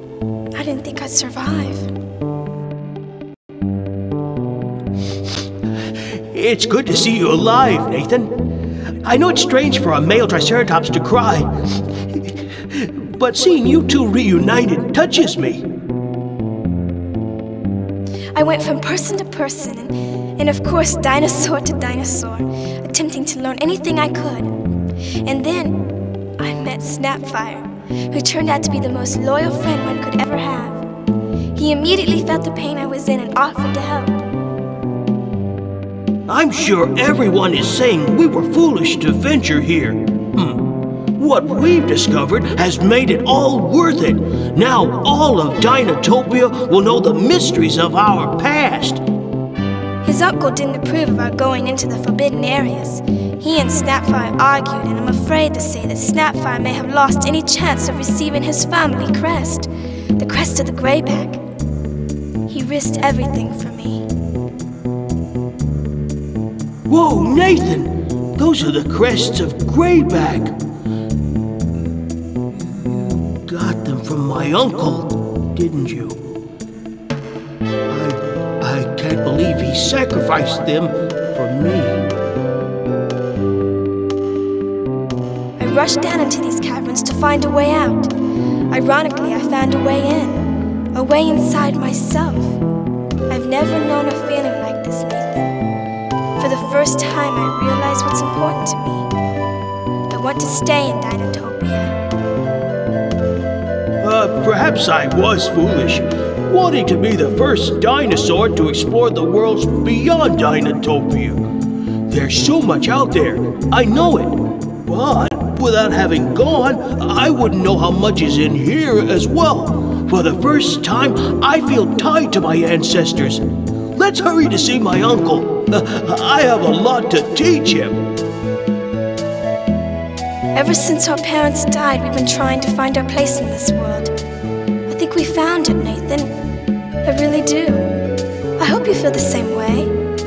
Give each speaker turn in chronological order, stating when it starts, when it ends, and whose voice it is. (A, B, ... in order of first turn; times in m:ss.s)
0:00.5-0:01.9 A
0:06.3-0:08.3 B
0:09.0-0:11.5 B
0:12.7-0:15.6 B
0:18.3-0:24.5 A
0:25.2-0:25.8 A
0:26.4-0:30.8 A
0:31.6-0:34.2 A
0:36.3-0:49.0 B
0:50.0-1:01.4 A
1:02.5-1:04.1 A
1:06.9-1:10.5 B
1:13.5-1:16.2 B
1:17.9-1:22.0 B
1:25.6-1:28.1 A
1:28.7-1:32.6 A
1:33.3-1:35.5 A
1:36.4-1:39.1 A
1:40.1-1:42.0 A
1:44.0-1:51.5 B
1:52.1-2:08.0 B
2:10.5-2:14.1 A
2:14.9-2:16.3 A
2:17.0-2:17.9 A
2:18.6-2:19.9 A